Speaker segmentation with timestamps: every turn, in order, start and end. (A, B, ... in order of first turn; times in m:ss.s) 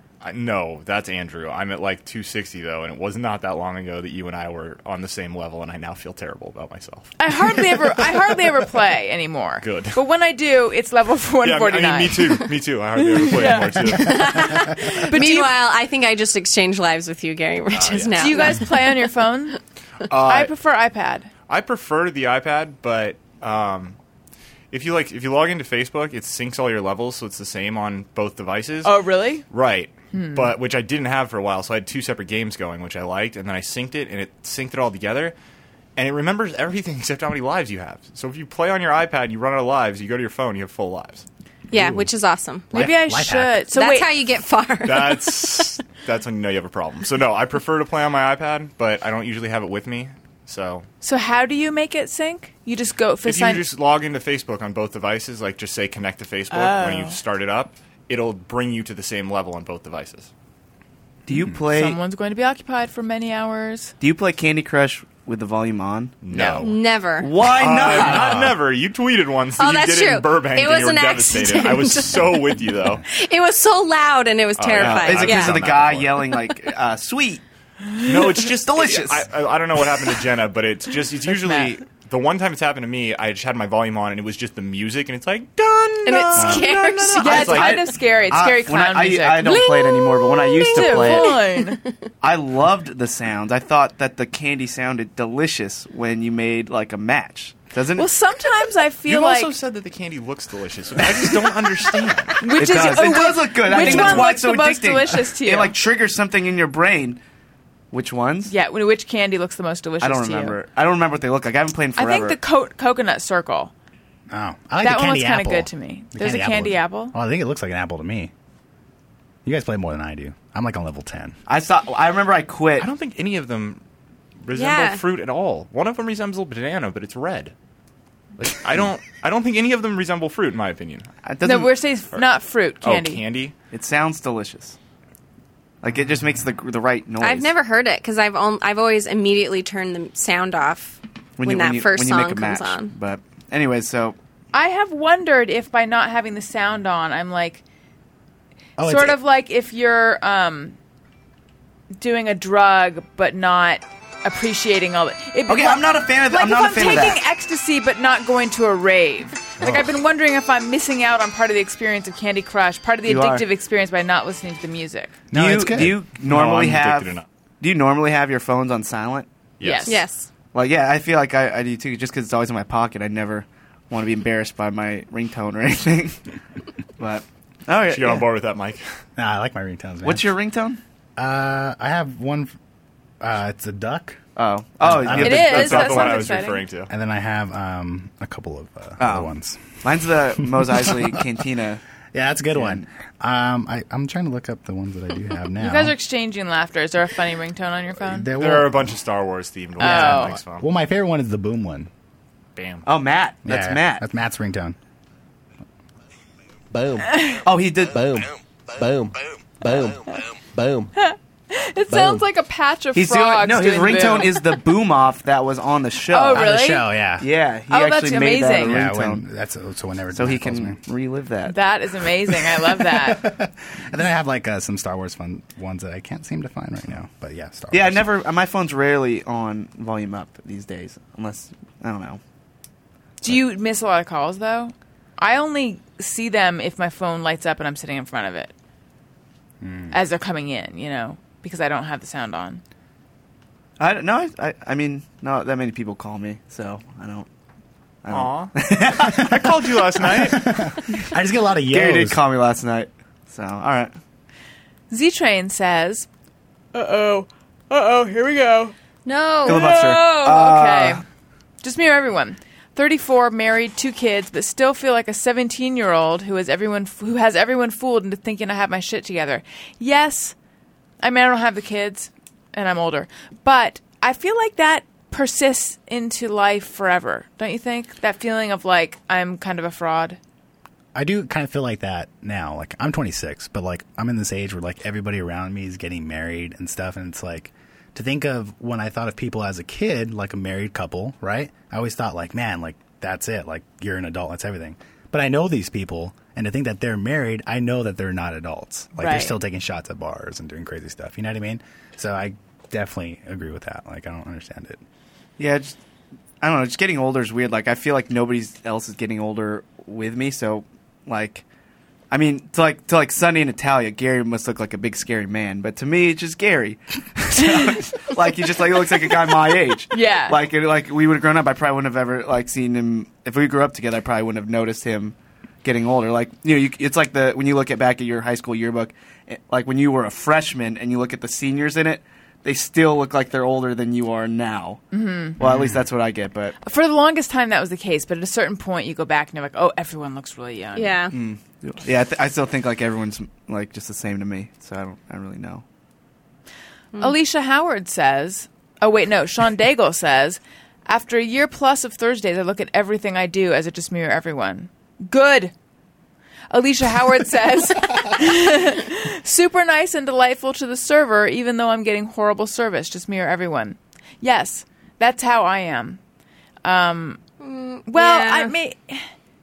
0:00.2-0:07.2 A
0:07.2-0:12.5 B
0:09.6-0:10.0 A
0:11.4-0:14.5 A
0:13.2-0:15.5 B
0:14.0-0:19.0 C
0:17.7-0:18.3 A
0:18.2-0:19.6 B
0:20.1-0:20.5 A
0:20.2-0:21.3 B
0:21.5-0:24.0 A
0:24.7-0:29.0 A
0:28.8-0:29.4 B
0:29.5-0:35.4 A
0:30.1-0:30.5 B
0:36.0-0:41.2 A
0:41.7-0:42.9 C
0:41.7-0:42.1 D
0:42.7-0:43.6 D
0:42.7-0:44.1 B
0:43.7-0:45.5 C
0:44.8-0:50.9 A
0:51.0-0:53.6 B
0:53.2-1:00.3 A
0:56.5-0:57.2 B
1:01.3-1:02.0 E
1:01.7-1:03.9 B
1:04.0-1:06.5 E
1:06.2-1:06.8 A
1:06.3-1:07.4 C
1:07.2-1:08.5 E
1:07.5-1:13.0 A
1:09.6-1:15.6 C
1:14.6-1:16.3 A
1:14.8-1:17.4 E
1:18.0-1:26.6 A
1:18.6-1:19.3 E
1:21.4-1:21.7 B
1:26.0-1:27.6 C
1:26.1-1:31.4 E
1:27.2-1:31.8 B
1:27.3-1:27.7 A
1:30.6-1:31.9 C
1:32.2-1:38.1 E
1:38.0-1:39.5 B
1:39.1-1:42.8 A
1:42.4-1:45.8 B
1:42.5-1:47.2 E
1:43.7-1:44.3 A
1:47.9-1:48.5 E
1:48.5-1:50.6 B
1:50.0-1:52.4 E
1:52.0-1:53.7 B
1:54.3-1:58.3 D
1:54.8-1:57.2 B
1:59.4-2:01.4 D
2:01.5-2:02.9 E
2:02.8-2:03.8 A
2:04.4-2:07.5 A
2:04.5-2:05.0 C
2:08.4-2:11.1 A
2:11.2-2:11.7 E
2:11.4-2:13.2 B
2:12.8-2:13.5 A
2:13.7-2:14.8 E
2:15.8-2:17.5 E
2:17.2-2:23.0 C
2:21.4-2:24.2 E
2:24.5-2:27.6 B
2:28.8-2:29.2 D
2:28.8-2:30.8 B
2:32.0-2:45.1 B
2:35.5-2:37.2 E
2:43.1-2:43.4 E
2:45.3-2:46.0 D
2:45.3-2:49.3 E
2:46.2-2:47.3 A
2:49.6-2:50.0 A
2:49.6-2:50.0 B
2:49.8-2:50.3 C
2:50.5-2:56.2 E
2:57.0-2:58.2 E
2:57.9-2:58.9 A
2:59.2-3:00.3 D
3:00.0-3:00.8 E
3:01.2-3:02.5 D
3:03.2-3:04.2 D
3:04.4-3:06.1 E
3:04.8-3:05.7 D
3:05.2-3:06.6 B
3:05.3-3:06.9 A
3:06.9-3:09.8 D
3:09.0-3:11.8 E
3:10.8-3:11.1 D
3:12.1-3:16.0 D
3:12.5-3:12.9 E
3:15.6-3:18.3 B
3:18.0-3:19.0 D
3:18.4-3:20.6 A
3:19.8-3:21.9 D
3:19.8-3:20.4 B
3:22.6-3:22.9 A
3:22.8-3:24.0 E
3:23.4-3:24.8 D
3:26.7-3:30.9 F
3:27.4-3:28.2 E
3:31.0-3:34.6 B
3:33.0-3:36.5 E
3:36.1-3:36.9 B
3:36.4-3:37.3 D
3:37.2-3:39.2 E
3:37.7-3:38.8 B
3:38.6-3:40.8 D
3:40.1-3:41.6 E
3:41.5-3:43.2 B
3:42.9-3:48.1 D
3:47.7-3:52.2 E
3:53.2-3:58.5 B
3:59.6-4:00.0 D
3:59.9-4:02.6 B
4:03.8-4:07.3 E
4:08.0-4:09.5 E
4:08.1-4:10.5 A
4:10.2-4:12.2 D
4:11.7-4:13.9 E
4:14.9-4:16.1 B
4:16.7-4:18.7 B
4:19.0-4:19.7 C
4:19.4-4:21.0 E
4:19.4-4:21.0 B
4:21.6-4:30.4 B
4:31.0-4:40.2 B
4:40.9-5:04.8 D
4:59.0-4:59.4 B
5:05.4-5:05.8 E
5:06.4-5:11.4 E
5:12.1-5:34.8 E
5:19.9-5:20.4 B
5:34.9-5:35.4 B
5:35.4-5:36.6 E
5:35.4-5:35.7 D
5:36.6-5:41.0 B
5:40.8-5:41.2 C
5:41.1-5:45.6 E
5:47.0-5:55.5 B
5:56.5-6:06.0 B
6:06.6-6:07.2 B
6:07.4-6:08.5 C
6:07.9-6:09.0 B